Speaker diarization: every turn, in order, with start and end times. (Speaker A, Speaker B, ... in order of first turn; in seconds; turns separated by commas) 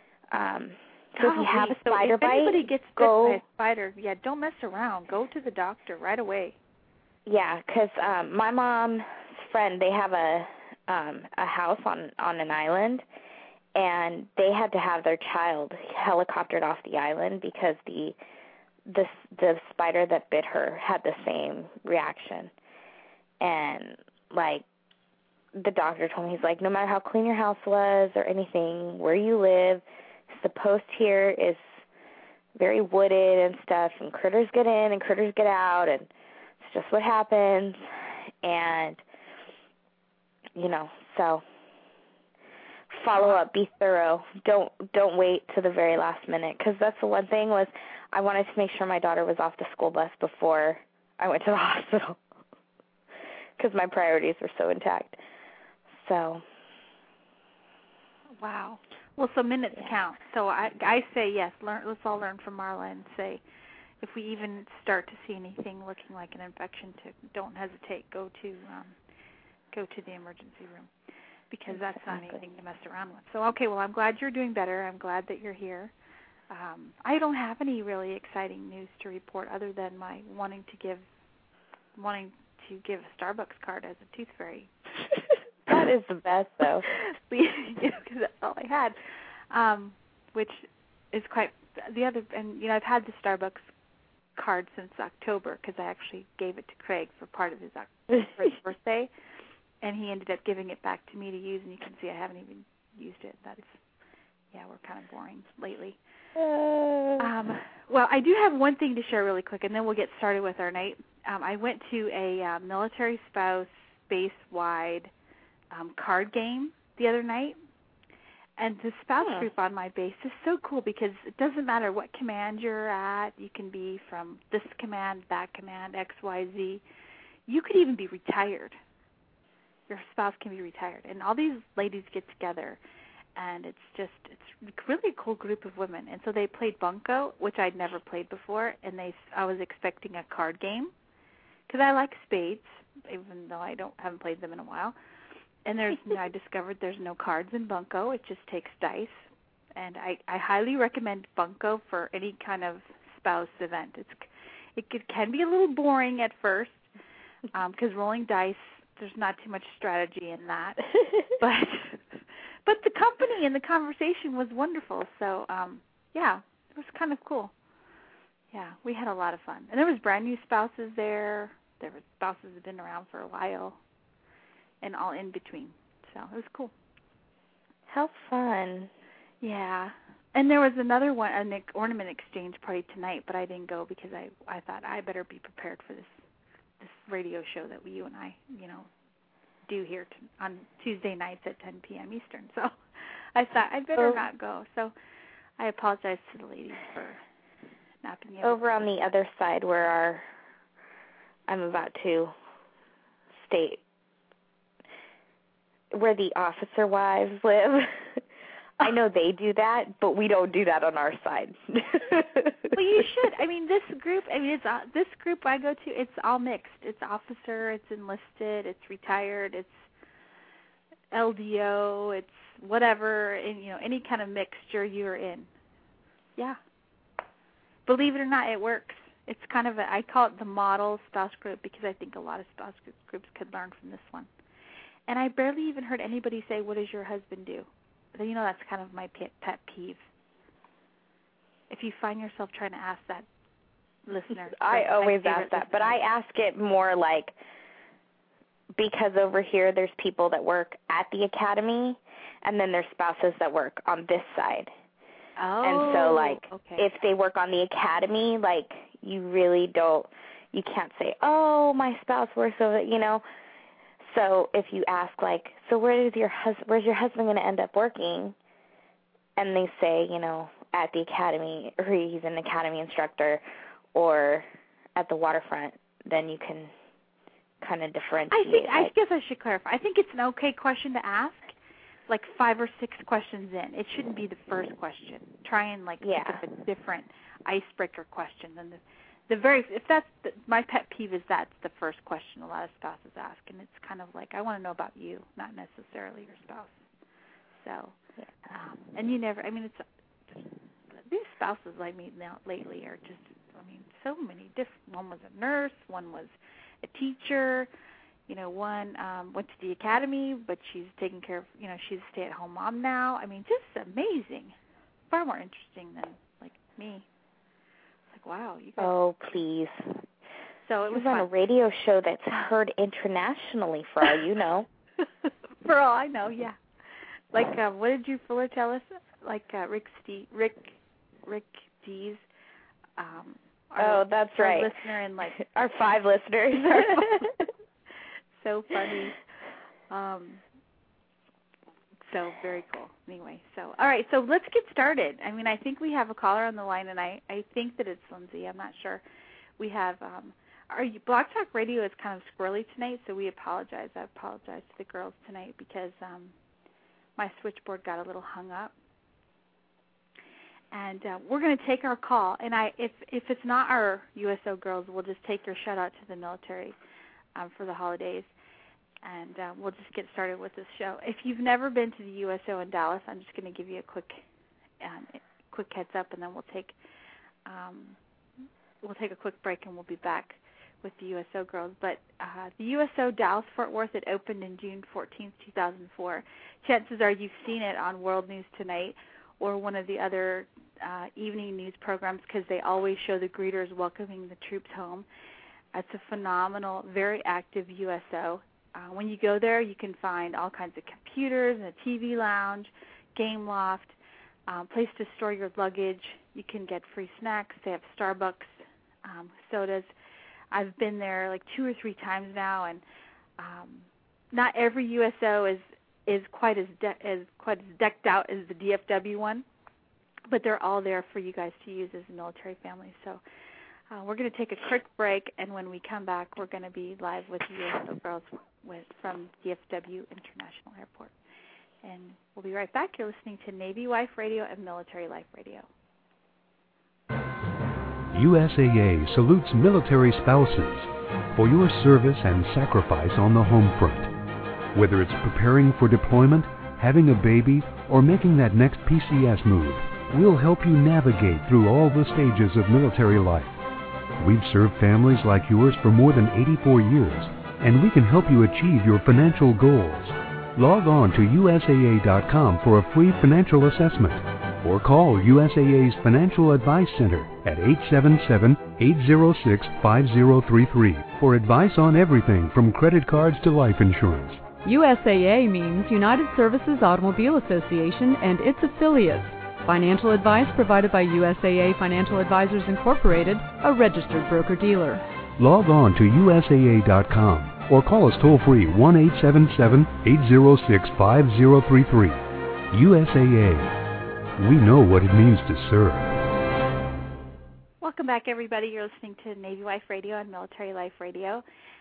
Speaker A: 0.3-3.4, Speaker B: 1.2-6.6, Speaker A: 7.3-13.1, Speaker A: 13.8-18.2, Speaker A: 18.9-22.5, Speaker A: 23.4-24.6, Speaker A: 25.5-31.6, Speaker A: 32.6-37.8, Speaker A: 38.4-39.0, Speaker A: 40.5-41.4, Speaker A: 42.9-52.2, Speaker B: 43.2-43.4, Speaker A: 53.6-55.2, Speaker A: 56.0-56.4, Speaker B: 58.4-63.4, Speaker B: 64.0-69.0, Speaker B: 69.7-70.9, Speaker B: 71.5-75.9, Speaker A: 71.7-72.4, Speaker B: 76.5-81.0, Speaker B: 82.0-84.7, Speaker A: 85.7-86.9, Speaker B: 86.9-89.0, Speaker B: 89.5-93.7, Speaker B: 94.4-99.1, Speaker B: 99.8-103.8, Speaker B: 104.5-106.0, Speaker A: 106.4-107.3, Speaker B: 107.2-115.1, Speaker B: 115.7-117.6, Speaker B: 118.6-126.8, Speaker A: 119.2-119.5, Speaker B: 127.5-128.8, Speaker B: 129.9-132.8, Speaker B: 133.4-140.9, Speaker B: 141.7-145.0, Speaker B: 145.7-156.9, Speaker B: 157.5-162.0, Speaker B: 162.7-167.5, Speaker B: 168.5-173.8, Speaker B: 174.8-176.7, Speaker A: 177.9-178.9, Speaker B: 179.4-186.2, Speaker B: 186.8-188.9, Speaker B: 189.7-192.7, Speaker B: 193.3-194.9, Speaker B: 195.6-197.2, Speaker B: 198.0-198.9, Speaker A: 198.4-200.3, Speaker A: 201.5-202.3, Speaker A: 203.4-203.8, Speaker A: 205.9-208.2, Speaker A: 208.8-212.8, Speaker B: 212.8-219.9, Speaker B: 221.1-225.5, Speaker B: 227.9-234.3, Speaker B: 235.1-240.0, Speaker B: 241.7-243.3, Speaker B: 244.1-246.0, Speaker A: 244.5-247.3, Speaker A: 248.8-254.7, Speaker B: 255.4-256.9, Speaker A: 255.6-263.2, Speaker A: 264.0-268.4, Speaker A: 269.4-273.4, Speaker A: 273.9-276.7, Speaker A: 277.6-278.9, Speaker B: 278.3-281.6, Speaker B: 282.1-296.8, Speaker A: 286.0-286.4, Speaker B: 297.6-298.0, Speaker A: 298.2-298.5, Speaker B: 298.5-299.8, Speaker B: 301.0-307.7, Speaker B: 308.3-314.6, Speaker B: 315.1-317.1, Speaker B: 318.1-318.9, Speaker A: 318.8-319.8, Speaker B: 320.6-321.3, Speaker A: 320.9-324.7, Speaker B: 325.6-326.6, Speaker B: 327.3-330.8, Speaker B: 331.3-332.2, Speaker B: 333.0-335.4, Speaker A: 333.8-334.7, Speaker A: 335.3-337.4, Speaker B: 336.6-337.1, Speaker B: 338.4-339.2, Speaker B: 339.9-340.4, Speaker B: 342.1-349.0, Speaker B: 349.6-356.3, Speaker B: 357.2-358.7, Speaker B: 360.7-366.8, Speaker B: 367.4-368.3, Speaker B: 369.0-374.2, Speaker B: 374.8-376.8, Speaker B: 377.5-378.0, Speaker B: 378.8-395.1, Speaker B: 395.7-404.0, Speaker B: 404.5-409.9, Speaker B: 410.5-412.8, Speaker B: 413.4-419.4, Speaker B: 420.3-423.2, Speaker B: 423.9-431.1, Speaker B: 431.8-435.7, Speaker C: 438.1-444.1, Speaker C: 444.8-453.5, Speaker C: 454.2-474.5, Speaker D: 474.6-485.0, Speaker C: 485.4-492.2, Speaker C: 492.7-493.7, Speaker C: 494.4-496.2, Speaker B: 497.8-501.4